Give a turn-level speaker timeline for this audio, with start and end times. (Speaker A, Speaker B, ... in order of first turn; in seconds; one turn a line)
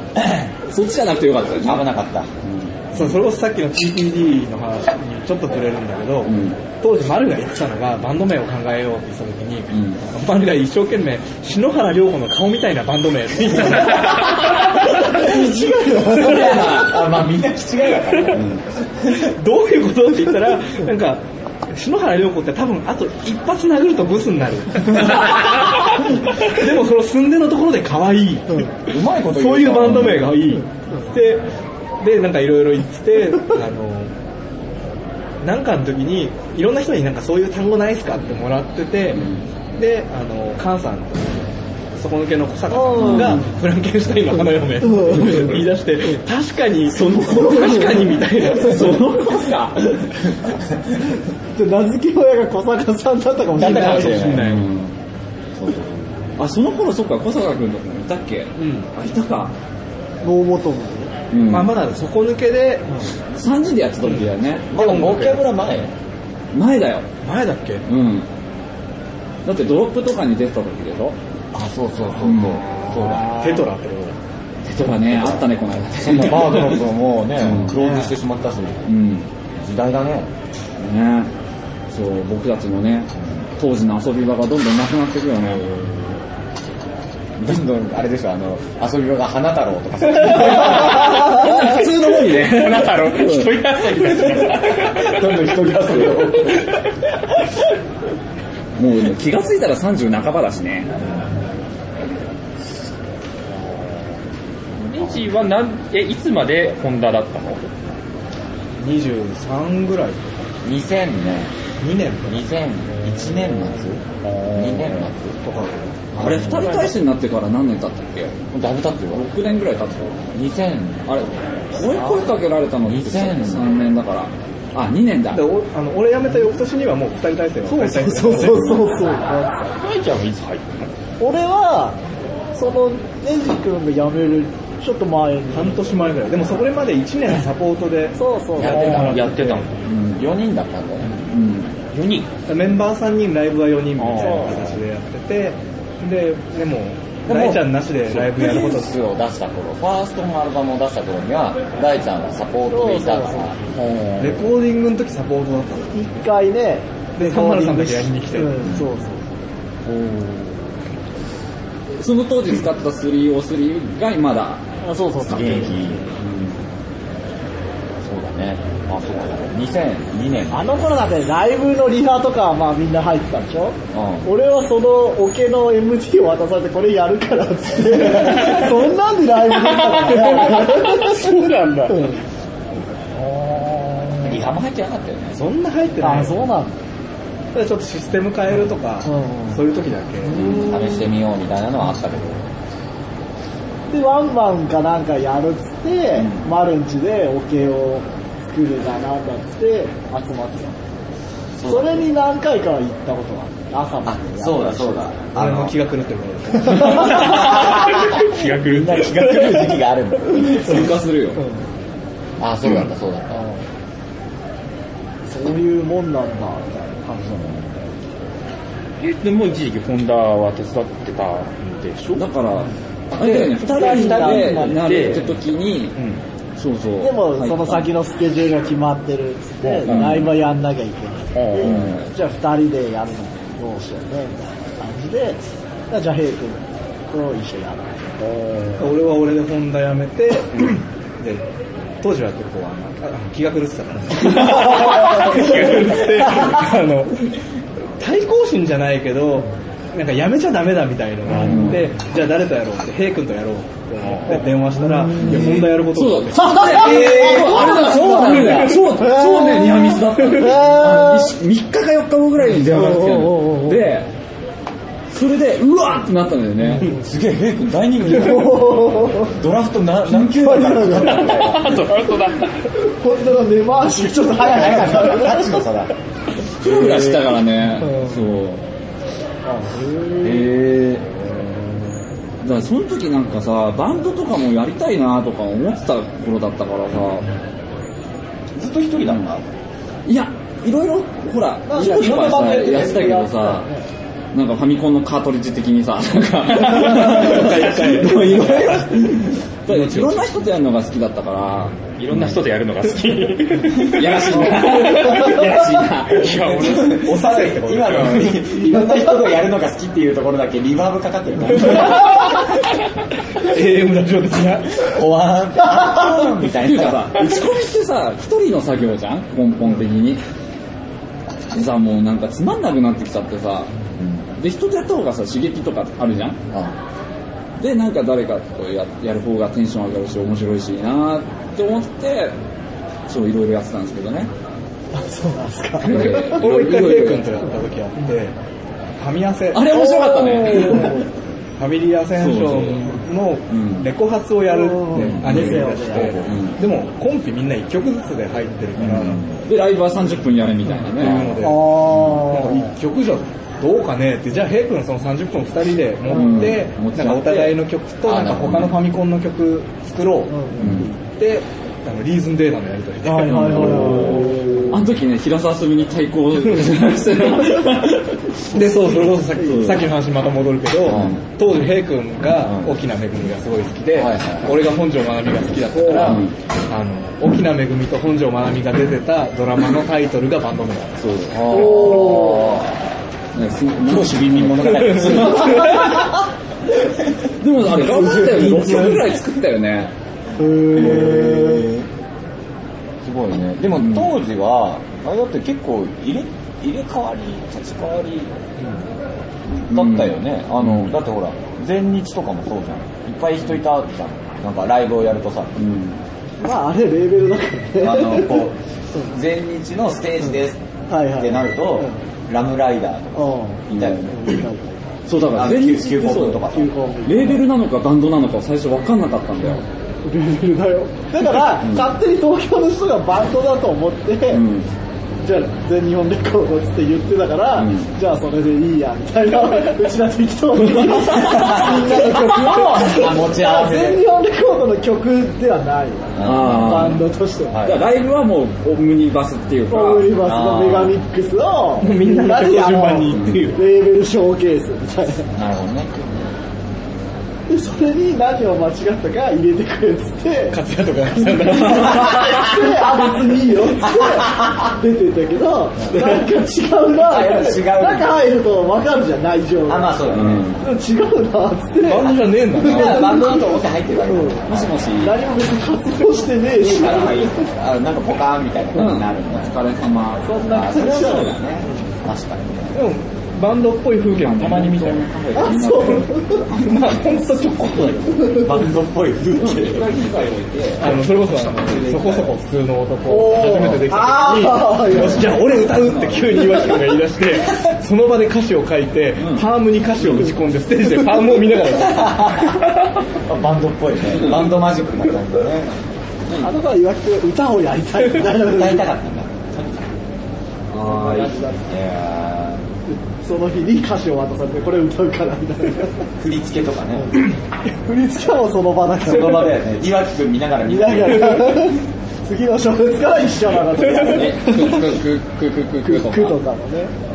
Speaker A: 0.2-0.4
Speaker B: 0.7-1.9
Speaker A: 1.6-2.3
Speaker B: 2.4-3.1
Speaker C: 2.9-14.7
Speaker B: 6.2-6.6
Speaker B: 9.7-10.0
Speaker D: 15.2-16.4
Speaker A: 15.8-19.3
Speaker B: 16.1-17.0
Speaker B: 18.3-18.6
Speaker C: 19.1-31.4
Speaker A: 28.8-30.4
Speaker C: 32.0-34.1
Speaker C: 35.4-41.4
Speaker B: 39.1-39.5
Speaker C: 42.0-49.2
Speaker D: 42.7-43.5
Speaker B: 42.9-43.5
Speaker D: 44.8-45.5
Speaker B: 45.2-45.5
Speaker D: 47.3-47.8
Speaker B: 48.4-50.0
Speaker D: 51.5-54.2
Speaker A: 53.5-54.5
Speaker C: 53.5-54.7
Speaker B: 54.3-55.0
Speaker B: 55.6-59.5
Speaker C: 58.6-58.9
Speaker D: 60.2-61.1
Speaker B: 61.3-61.8
Speaker C: 61.4-63.1
Speaker B: 63.3-64.7
Speaker C: 64.0-65.5
Speaker A: 64.7-65.9
Speaker B: 66.5-67.0
Speaker C: 67.2-67.8
Speaker B: 67.9-68.3
Speaker B: 69.4-71.2
Speaker A: 71.5-73.6
Speaker B: 72.2-72.6
Speaker E: 72.8-73.2
Speaker C: 73.2-74.2
Speaker B: 74.6-76.8
Speaker A: 74.9-78.9
Speaker B: 77.4-77.8
Speaker C: 77.7-78.1
Speaker B: 78.8-79.3
Speaker A: 79.5-80.3
Speaker B: 80.8-81.3
Speaker B: 81.9-85.8
Speaker A: 83.2-83.4
Speaker A: 87.4-91.5
Speaker B: 90.2-93.6
Speaker E: 92.3-95.2
Speaker A: 94.0-96.7
Speaker B: 94.3-94.7
Speaker B: 98.8-100.9
Speaker A: 101.0-101.3
Speaker E: 104.8-107.7
Speaker A: 105.0-105.3
Speaker C: 108.8-110.3
Speaker A: 110.6-111.5
Speaker C: 111.8-112.4
Speaker A: 112.2-115.4
Speaker E: 114.2-115.1
Speaker C: 115.4-116.1
Speaker A: 116.1-116.7
Speaker B: 116.1-118.4
Speaker A: 118.5-119.3
Speaker B: 119.1-120.2
Speaker A: 120.3-121.1
Speaker B: 121.0-125.4
Speaker A: 121.8-123.8
Speaker C: 125.3-128.9
Speaker D: 127.7-129.7
Speaker E: 129.7-130.9
Speaker D: 131.2-132.0
Speaker D: 132.5-135.8
Speaker C: 135.5-138.2
Speaker D: 138.2-139.1
Speaker A: 138.6-141.2
Speaker E: 138.6-139.8
Speaker B: 139.9-140.2
Speaker B: 141.1-141.8
Speaker E: 141.9-142.3
Speaker C: 142.5-148.9
Speaker E: 144.0-144.7
Speaker A: 147.2-153.7
Speaker D: 152.7-153.6
Speaker E: 153.8-154.2
Speaker C: 154.2-155.9
Speaker D: 155.9-159.4
Speaker C: 157.2-158.7
Speaker B: 162.0-164.6
Speaker D: 164.8-165.8
Speaker A: 165.2-166.1
Speaker B: 165.3-166.6
Speaker A: 168.0-170.7
Speaker D: 170.5-181.3
Speaker A: 173.9-174.3
Speaker E: 179.7-182.1
Speaker D: 181.9-182.2
Speaker D: 183.2-184.4
Speaker A: 184.2-185.4
Speaker C: 185.3-186.5
Speaker D: 186.0-186.8
Speaker C: 187.5-190.4
Speaker D: 189.0-189.6
Speaker D: 190.2-191.1
Speaker A: 190.3-192.5
Speaker D: 193.9-200.8
Speaker A: 196.2-196.5
Speaker A: 201.6-202.0
Speaker D: 201.7-205.0
Speaker A: 204.1-205.8
Speaker C: 205.3-207.4
Speaker A: 206.8-211.0
Speaker E: 206.8-209.5
Speaker B: 210.3-211.4
Speaker A: 212.4-213.5
Speaker D: 215.2-217.7
Speaker E: 219.0-222.3
Speaker B: 222.1-225.9
Speaker A: 223.2-224.8
Speaker D: 223.6-224.8
Speaker E: 223.9-225.3
Speaker E: 225.9-226.2
Speaker B: 226.6-227.9
Speaker D: 227.0-238.9
Speaker E: 229.6-230.1
Speaker B: 229.8-230.3
Speaker E: 231.3-231.9
Speaker B: 231.6-232.1
Speaker C: 238.8-241.4
Speaker C: 242.0-247.3
Speaker E: 244.4-245.9
Speaker C: 248.0-257.0
Speaker B: 251.3-251.9
Speaker E: 254.0-254.3
Speaker D: 254.8-255.5
Speaker B: 255.2-264.1
Speaker D: 256.6-261.3
Speaker A: 256.6-259.0
Speaker D: 262.7-263.8
Speaker B: 265.1-266.9
Speaker A: 266.8-271.9
Speaker D: 268.1-269.3
Speaker D: 270.1-271.5
Speaker E: 271.1-272.6
Speaker D: 272.8-275.6
Speaker A: 274.3-275.9
Speaker B: 276.6-278.6
Speaker D: 276.8-277.1
Speaker D: 277.8-278.1
Speaker D: 279.4-280.5
Speaker A: 280.2-281.1
Speaker B: 282.4-287.3
Speaker A: 288.5-289.4
Speaker B: 290.1-293.7
Speaker D: 291.6-293.9
Speaker A: 291.7-293.2
Speaker B: 294.3-302.4
Speaker C: 296.7-298.6
Speaker E: 296.7-297.2
Speaker E: 301.9-307.1
Speaker B: 303.7-306.7
Speaker A: 306.4-312.3
Speaker C: 306.8-308.5
Speaker D: 308.6-309.1
Speaker C: 311.7-312.3
Speaker C: 313.4-314.9
Speaker A: 314.8-317.3
Speaker B: 316.6-320.2
Speaker B: 321.5-323.7
Speaker A: 323.9-324.2
Speaker B: 324.4-326.4
Speaker A: 326.5-326.8
Speaker B: 327.6-332.4
Speaker B: 333.1-334.3
Speaker D: 334.9-336.4
Speaker B: 335.8-337.5
Speaker C: 335.9-338.3
Speaker C: 339.0-339.9
Speaker B: 339.5-341.1
Speaker D: 339.7-341.1
Speaker C: 340.5-340.9
Speaker C: 341.6-349.2
Speaker B: 342.1-342.9
Speaker B: 343.5-343.9
Speaker D: 344.5-346.1
Speaker B: 344.9-346.6
Speaker A: 345.9-346.5
Speaker A: 348.8-349.4
Speaker B: 349.4-352.2
Speaker C: 350.8-364.1
Speaker D: 351.4-352.7
Speaker B: 356.1-357.6
Speaker D: 356.1-356.5
Speaker A: 358.0-358.8
Speaker D: 360.3-360.9
Speaker B: 360.6-360.9
Speaker D: 363.0-364.8
Speaker B: 363.2-368.8
Speaker C: 368.5-381.1
Speaker B: 369.4-369.9
Speaker A: 370.9-371.2
Speaker B: 370.9-371.2
Speaker A: 372.4-372.7
Speaker A: 373.9-374.7
Speaker A: 375.9-376.1
Speaker B: 375.9-376.3
Speaker B: 381.0-382.4
Speaker A: 381.3-382.8
Speaker D: 381.5-382.6
Speaker B: 383.3-386.1
Speaker A: 383.8-386.1
Speaker B: 387.3-389.9
Speaker A: 387.9-388.9
Speaker D: 390.4-391.7
Speaker A: 390.7-391.9
Speaker A: 393.0-398.3
Speaker B: 393.8-394.1
Speaker A: 399.5-405.6
Speaker B: 399.7-400.9
Speaker B: 405.6-406.0
Speaker D: 406.4-409.1
Speaker A: 407.8-414.3
Speaker D: 410.9-412.0
Speaker D: 413.1-414.8
Speaker B: 413.7-414.1
Speaker B: 415.1-416.4
Speaker A: 415.2-416.7
Speaker D: 416.5-417.4
Speaker B: 417.0-419.6
Speaker D: 419.4-424.4
Speaker B: 421.4-421.9
Speaker B: 424.3-424.7
Speaker D: 425.2-437.6
Speaker B: 427.5-427.9
Speaker B: 430.7-431.0
Speaker A: 431.0-434.0
Speaker A: 436.1-437.9
Speaker B: 436.2-437.1
Speaker B: 437.6-440.2
Speaker D: 439.7-445.3
Speaker A: 440.2-440.9
Speaker C: 441.8-443.6
Speaker A: 445.3-446.3
Speaker D: 447.5-450.6
Speaker C: 450.5-452.5
Speaker D: 451.6-460.0
Speaker A: 453.9-454.5
Speaker A: 455.9-456.2
Speaker A: 456.9-458.1
Speaker A: 459.7-460.5
Speaker B: 460.1-460.6
Speaker D: 460.6-463.5
Speaker C: 461.9-463.2
Speaker A: 462.5-464.8
Speaker D: 464.0-464.5
Speaker B: 464.5-465.1
Speaker D: 465.0-467.5
Speaker B: 466.6-467.3
Speaker A: 466.6-469.6
Speaker B: 468.7-470.3
Speaker D: 470.2-471.8
Speaker A: 470.5-472.8
Speaker B: 470.9-471.2
Speaker C: 472.7-475.0
Speaker B: 474.1-478.1
Speaker D: 475.3-476.4
Speaker C: 476.5-478.4
Speaker D: 478.1-478.5
Speaker A: 478.3-480.3
Speaker B: 479.4-480.9
Speaker C: 480.8-492.6
Speaker B: 481.6-482.2
Speaker D: 483.1-485.3
Speaker B: 484.9-486.5
Speaker B: 489.2-489.4
Speaker B: 490.0-490.3
Speaker A: 491.9-492.6
Speaker A: 493.1-495.8
Speaker D: 496.4-498.9
Speaker A: 498.2-500.0
Speaker B: 500.7-501.5
Speaker D: 500.8-501.7
Speaker A: 501.6-502.6
Speaker D: 502.9-506.1
Speaker A: 506.2-507.2
Speaker D: 507.0-507.3
Speaker D: 507.8-509.6
Speaker A: 509.0-511.7
Speaker D: 510.7-514.8
Speaker B: 513.8-516.4
Speaker D: 515.8-516.9